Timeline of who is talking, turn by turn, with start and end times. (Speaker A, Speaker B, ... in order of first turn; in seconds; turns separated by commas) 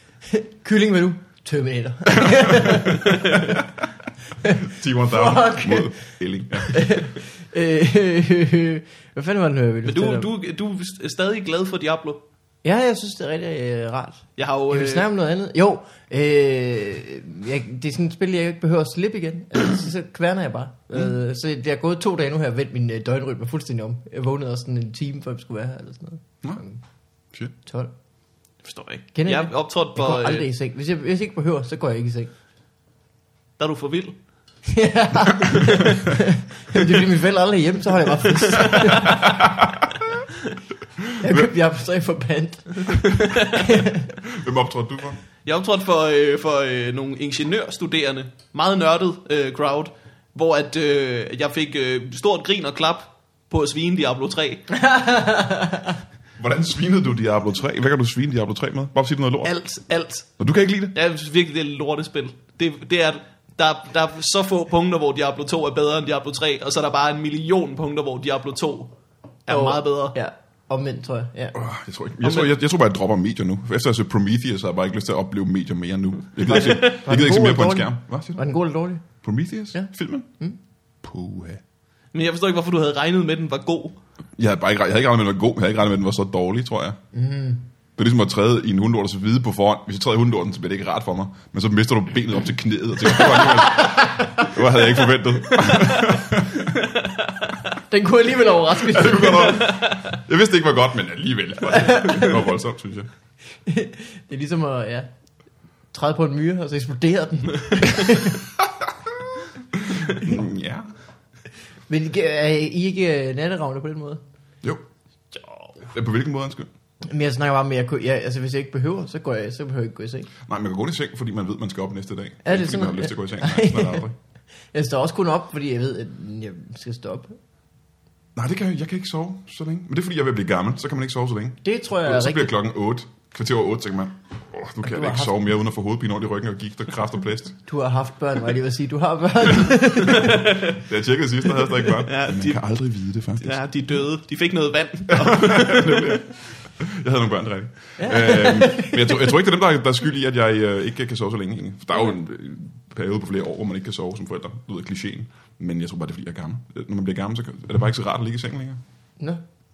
Speaker A: 0.3-3.6, Speaker B: 2.1-3.6, Speaker A: 4.4-6.0, Speaker B: 4.6-7.0, Speaker A: 6.7-10.3, Speaker C: 9.8-12.2, Speaker A: 12.6-26.8, Speaker C: 14.4-15.1, Speaker A: 27.6-27.9, Speaker C: 28.6-30.5, Speaker A: 29.1-32.3, Speaker C: 33.6-34.2, Speaker A: 34.6-39.5, Speaker B: 38.9-39.9, Speaker B: 41.0-41.5, Speaker A: 41.2-44.1, Speaker C: 43.2-43.7, Speaker B: 44.2-45.2, Speaker C: 45.4-54.8, Speaker A: 54.7-56.0, Speaker B: 56.4-59.5, Speaker C: 59.4-60.4, Speaker B: 60.4-60.9, Speaker C: 60.9-69.0, Speaker C: 69.5-70.2, Speaker A: 69.5-71.5, Speaker B: 71.5-78.4, Speaker C: 72.2-72.5, Speaker A: 76.5-79.0, Speaker C: 76.5-77.0, Speaker B: 79.2-80.3, Speaker B: 81.0-81.6, Speaker C: 82.1-84.0, Speaker B: 84.4-87.0, Speaker A: 87.1-87.7, Speaker B: 88.0-96.7, Speaker A: 93.7-94.5, Speaker C: 95.6-96.0, Speaker C: 96.8-97.5, Speaker A: 97.9-99.7, Speaker B: 98.8-103.1, Speaker C: 99.6-100.0, Speaker A: 101.7-102.3, Speaker A: 103.6-105.1, Speaker A: 105.9-108.4, Speaker B: 108.6-109.2, Speaker B: 109.7-110.9, Speaker A: 111.9-114.2, Speaker C: 115.3-115.9, Speaker B: 115.9-116.7, Speaker A: 117.1-120.3, Speaker B: 120.4-124.1, Speaker A: 122.4-124.1, Speaker A: 124.7-127.3, Speaker B: 128.3-137.6, Speaker A: 131.6-132.5, Speaker A: 134.8-135.3, Speaker A: 137.7-140.4, Speaker C: 140.1-140.8, Speaker B: 140.2-143.6, Speaker C: 141.7-142.6, Speaker C: 143.4-146.2, Speaker B: 145.1-158.8, Speaker A: 148.0-149.3